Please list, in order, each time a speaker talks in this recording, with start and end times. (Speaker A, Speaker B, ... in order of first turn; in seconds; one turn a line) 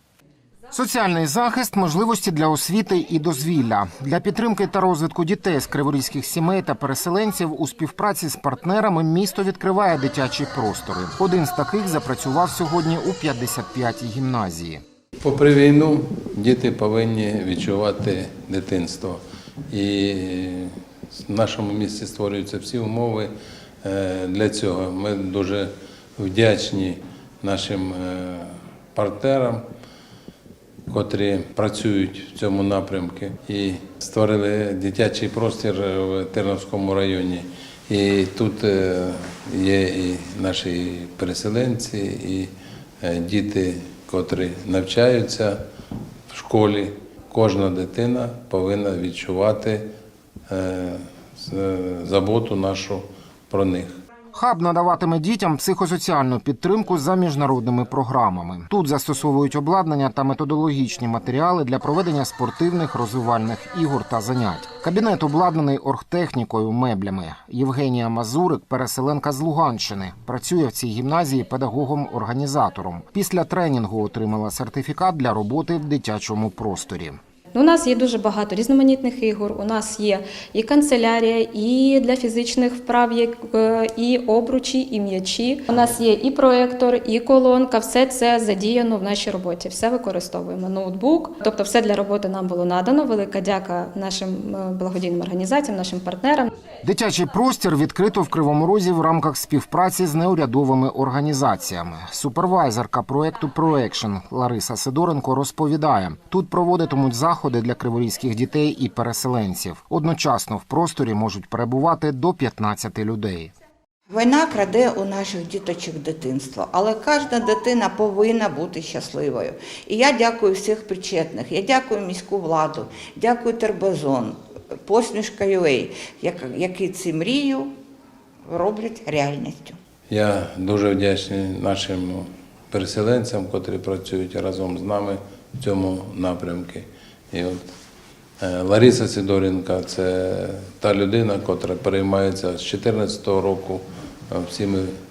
Speaker A: 0.7-14.8
Speaker B: 15.2-23.3
Speaker B: 23.8-29.6
Speaker B: 30.9-42.5
Speaker B: 43.0-45.6
Speaker B: 46.3-49.9
Speaker B: 50.5-54.0
Speaker A: 54.3-77.2
Speaker C: 77.5-96.5
Speaker A: 96.8-113.5
Speaker D: 114.1-127.7
Speaker D: 128.5-129.8
Speaker B: 130.1-137.7
Speaker B: 138.4-144.9